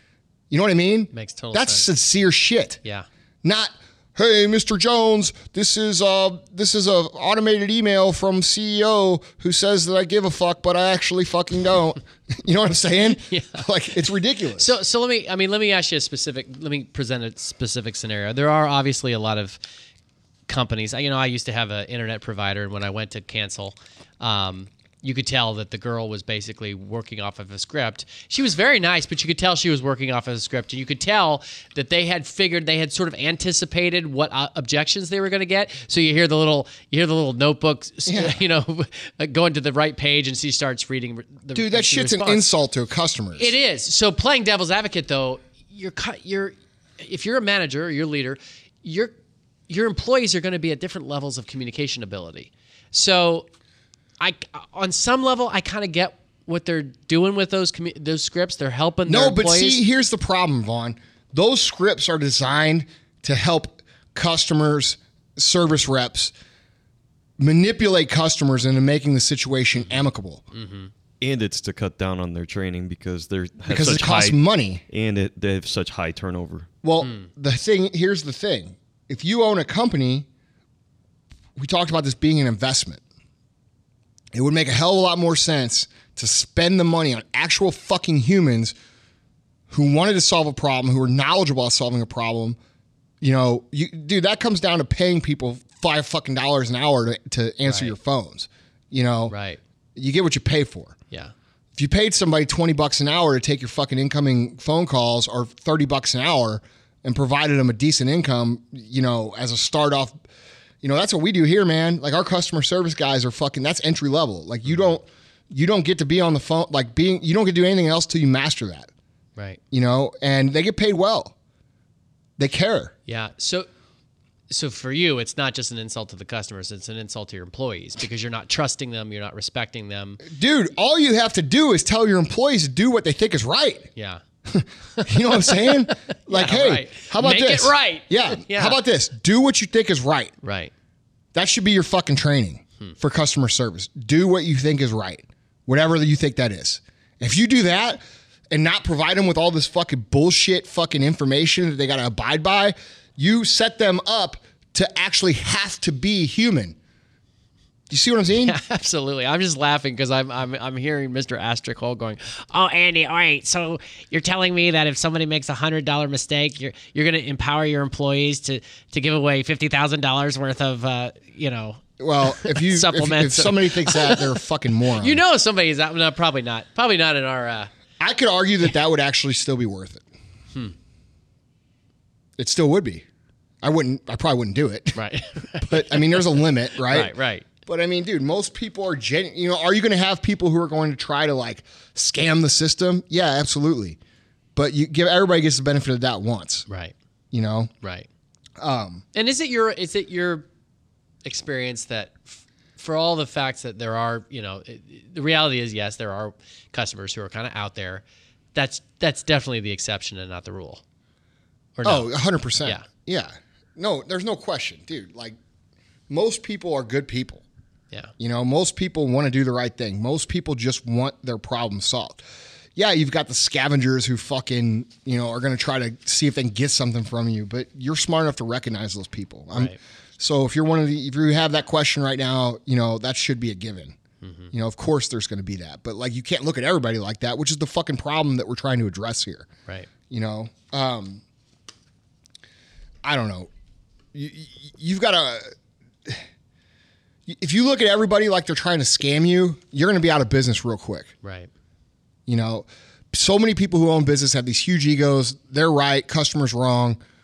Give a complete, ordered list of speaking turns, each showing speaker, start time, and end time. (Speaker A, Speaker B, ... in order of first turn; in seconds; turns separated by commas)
Speaker A: 0.5-2.8, Speaker B: 1.1-1.9, Speaker A: 3.4-14.7, Speaker B: 13.3-13.6, Speaker B: 14.6-19.6, Speaker B: 20.5-42.5, Speaker A: 38.1-38.4, Speaker A: 41.5-43.5, Speaker B: 43.4-49.1, Speaker B: 49.7-53.5, Speaker B: 54.2-59.8, Speaker A: 59.1-66.3, Speaker A: 67.4-70.4, Speaker B: 70.5-70.9, Speaker C: 71.2-74.4, Speaker A: 73.7-74.8, Speaker C: 74.9-76.7, Speaker A: 76.8-80.3, Speaker A: 81.6-83.0, Speaker A: 84.3-88.7, Speaker A: 89.7-92.6, Speaker A: 93.2-99.3, Speaker B: 97.7-97.9, Speaker B: 99.3-99.6, Speaker A: 100.0-101.0, Speaker A: 101.7-110.1, Speaker A: 110.8-118.9, Speaker A: 119.7-121.3, Speaker A: 122.4-122.9, Speaker B: 123.1-123.7, Speaker B: 124.5-130.2, Speaker A: 130.2-133.9, Speaker B: 133.9-134.2, Speaker A: 134.5-140.3, Speaker B: 134.9-138.8, Speaker B: 140.4-140.7, Speaker A: 141.3-156.8, Speaker A: 157.9-158.5, Speaker B: 158.4-174.3, Speaker A: 172.0-175.2, Speaker B: 175.0-177.7, Speaker A: 178.0-180.0, Speaker A: 182.4-183.0, Speaker A: 183.6-185.0, Speaker B: 184.9-187.4, Speaker A: 185.6-187.1, Speaker A: 187.7-194.0, Speaker A: 194.5-196.7, Speaker B: 196.7-196.9, Speaker A: 197.3-197.7, Speaker B: 197.8-198.1, Speaker A: 198.6-199.0, Speaker B: 199.1-200.5, Speaker B: 201.2-210.8, Speaker B: 211.8-212.1, Speaker A: 211.8-215.3, Speaker A: 216.1-217.4, Speaker A: 218.2-222.2, Speaker A: 222.8-233.9, Speaker B: 234.2-234.5, Speaker A: 234.5-239.5, Speaker A: 240.1-241.2, Speaker A: 243.0-243.5, Speaker A: 244.1-245.5, Speaker A: 247.3-251.1, Speaker B: 251.2-251.5, Speaker A: 252.3-257.0